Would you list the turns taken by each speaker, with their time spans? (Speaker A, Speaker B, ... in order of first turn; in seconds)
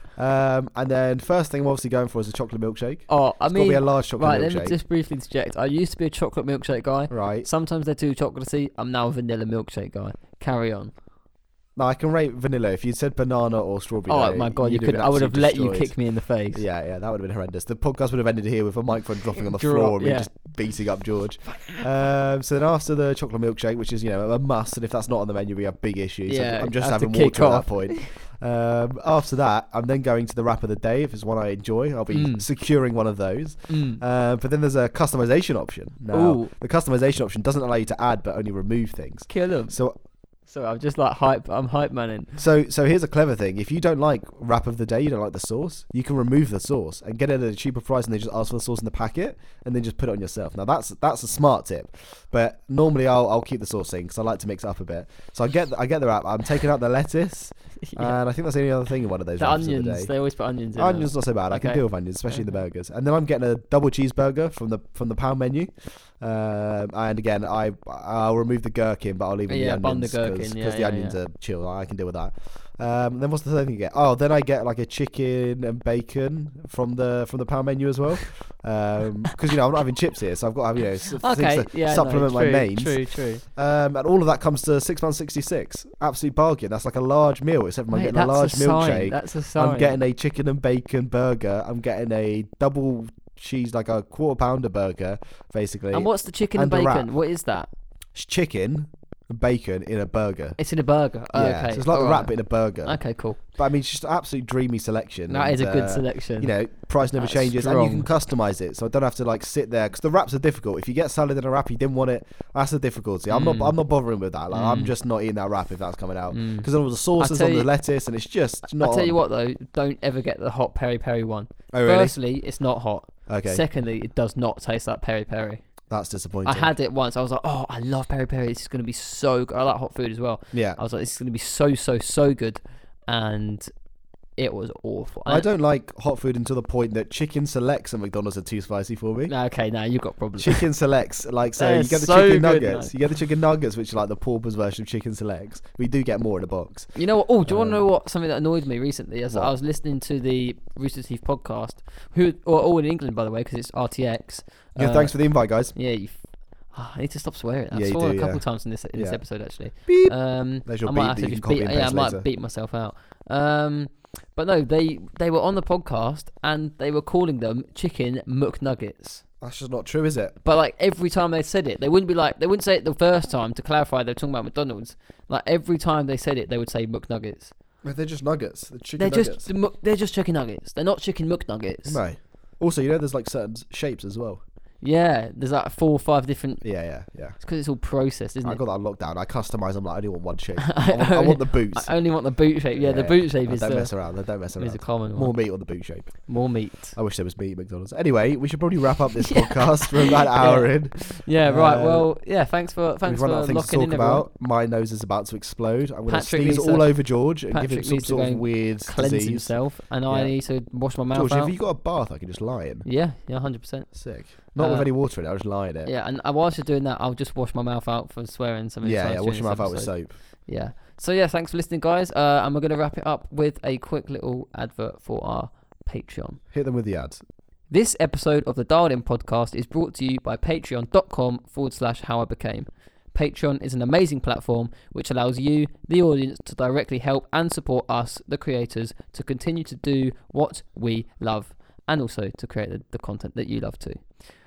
Speaker A: 0.2-4.8, 7.1-7.5, 11.8-15.9, 16.5-40.0, 42.4-60.1, 60.8-97.1, 98.1-100.6, 101.3-103.0, 103.6-119.2, 121.7-122.2, 123.3-123.6, 125.9-126.7, 130.5-130.8, 135.3-139.3, 140.4-146.9, 147.5-147.8, 154.8-155.7, 157.7-158.4, 158.9-159.2, 159.9-162.3, 169.4-170.4, 177.8-179.5, 181.9-184.4, 186.6-187.4, 188.4-191.9, 192.8-196.2, 196.9-202.1, 203.1-209.5, 211.1-212.9, 213.9-215.9, 218.8-220.1, 226.5-227.2
Speaker B: 3.1-10.9, 14.1-16.6, 19.4-20.3, 26.3-28.1, 32.1-32.5, 33.7-34.0, 36.1-36.5, 39.3-39.8, 40.5-42.4, 57.8-58.2, 59.4-62.5, 69.5-71.2, 81.2-83.4, 87.9-90.0, 95.9-97.7, 100.6-103.4, 105.3-106.5, 107.2-108.1, 113.3-113.8, 114.5-114.9, 116.3-117.7, 118.7-125.6, 126.5-133.7, 134.4-135.5, 139.3-140.7, 141.6-142.9, 146.9-155.2, 155.7-156.2, 156.7-169.2, 170.4-177.5, 179.0-182.0, 184.8-186.6, 187.4-188.6, 190.6-193.9, 194.6-195.3, 196.3-197.0, 199.2-204.3, 206.1-206.9, 207.5-211.5, 212.8-213.9, 214.6-214.9, 215.8-219.9, 220.5-226.4, 227.7-244.1